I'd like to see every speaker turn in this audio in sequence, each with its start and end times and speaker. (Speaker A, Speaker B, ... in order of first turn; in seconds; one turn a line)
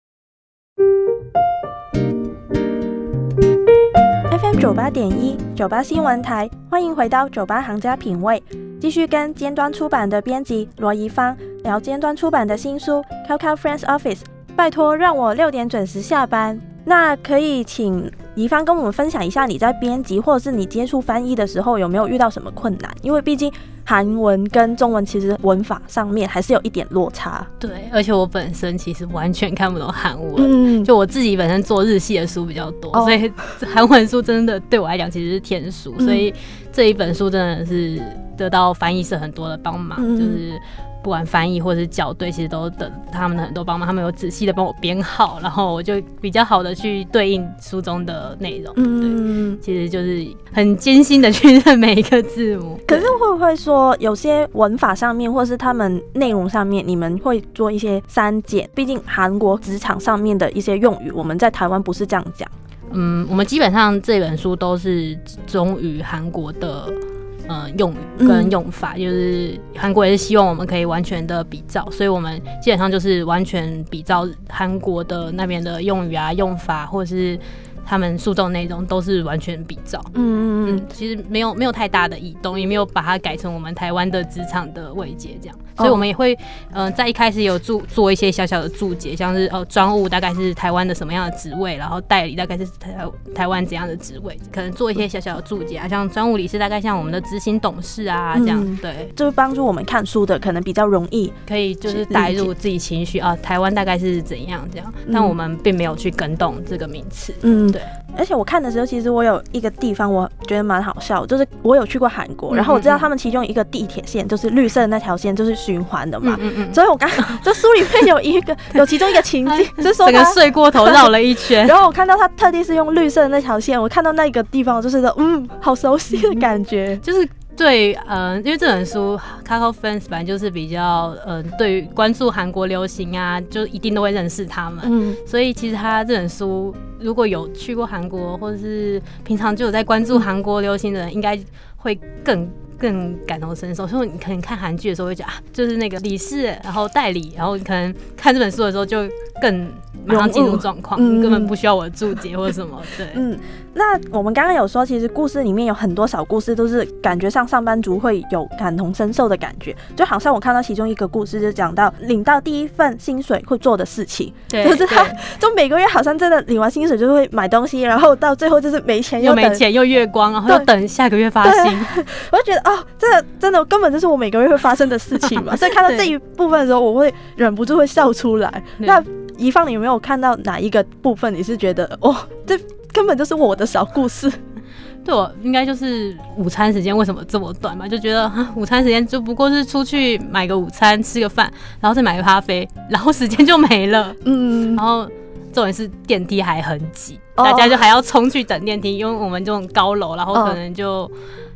Speaker A: 4.3-27.5
Speaker B: 27.6-53.1
Speaker A: 30.4-30.9
Speaker A: 32.9-33.2
Speaker A: 36.0-36.3
Speaker A: 40.0-40.4
Speaker A: 48.8-49.6
Speaker A: 52.9-62.5
Speaker B: 62.9-80.1
Speaker A: 68.2-68.5
Speaker A: 80.1-80.8
Speaker B: 80.7-99.1
Speaker A: 85.8-86.0
Speaker A: 98.3-101.3
Speaker B: 101.5-107.9
Speaker A: 101.9-102.5
Speaker A: 105.1-105.3
Speaker A: 107.4-127.0
Speaker B: 112.5-113.1
Speaker B: 116.2-117.4
Speaker B: 119.4-121.7
Speaker B: 127.0-153.2
Speaker A: 134.8-135.2
Speaker A: 150.1-151.5
Speaker A: 153.1-169.6
Speaker B: 164.5-165.2
Speaker B: 169.2-172.0
Speaker A: 171.4-184.4
Speaker B: 175.3-176.1
Speaker B: 185.0-194.2
Speaker A: 194.2-194.8
Speaker B: 194.7-201.1
Speaker A: 197.4-197.8
Speaker A: 200.3-200.6